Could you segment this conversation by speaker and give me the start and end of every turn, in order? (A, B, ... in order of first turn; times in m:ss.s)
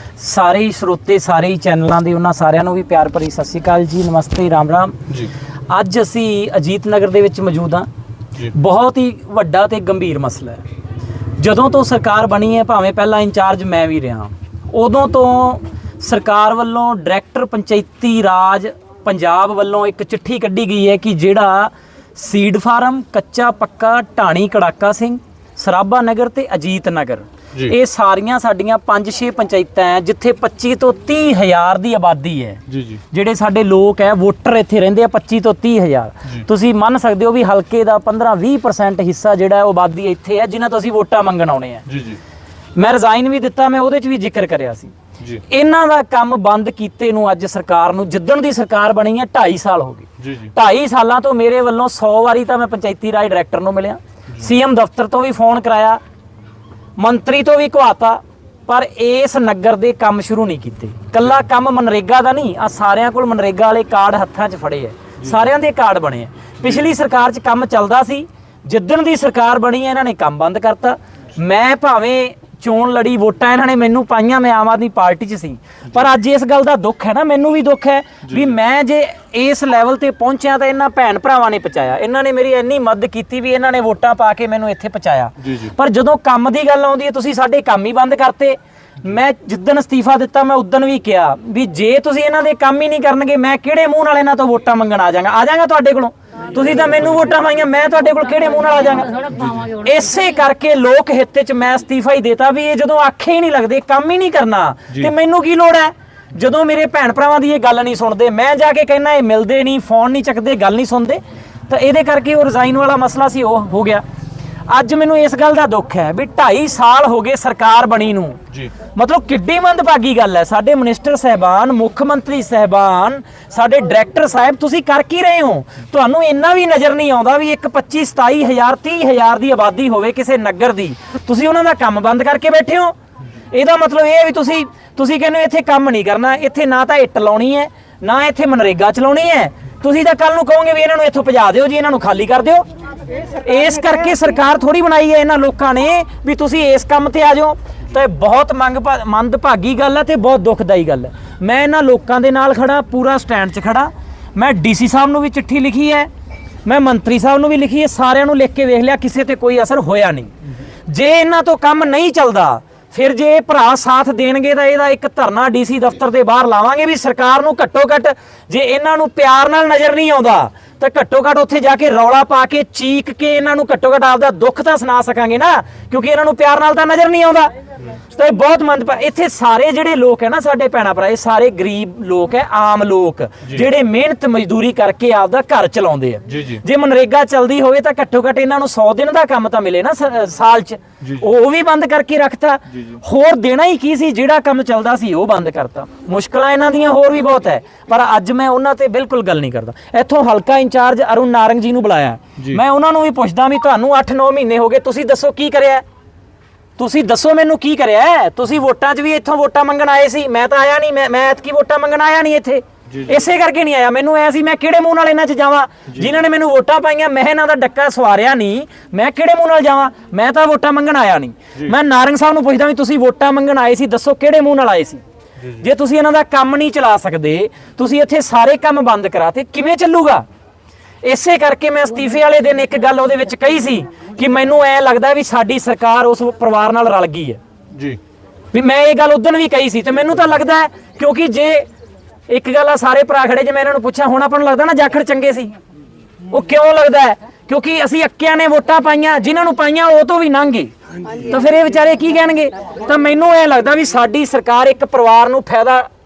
0:00.2-0:05.0 A
0:05.7-0:07.9 A
0:08.5-0:10.6 A
0:11.4-0:41.8 A
0:32.7-0:33.0 B
0:41.9-0:42.2 B
0:42.8-0:44.9 A
0:45.5-0:56.0 A
0:50.2-0:50.5 B
0:57.0-1:54.0 A
1:25.4-1:25.7 B
1:39.4-1:39.7 B
1:54.7-1:58.4 A
1:58.9-2:12.9 A
2:13.5-2:22.7 A
2:23.4-2:36.1 A
2:36.6-2:40.3 A
2:40.9-2:57.5 A
2:58.1-3:25.8 A
3:06.3-3:06.6 B
3:12.7-3:13.0 B
3:26.8-3:45.0 A
3:32.9-3:33.2 B
3:45.6-3:50.2 A
3:51.0-3:57.4 A
3:57.7-3:58.0 B
3:58.5-4:01.7 A
4:02.3-4:05.5 A
4:06.3-4:15.9 A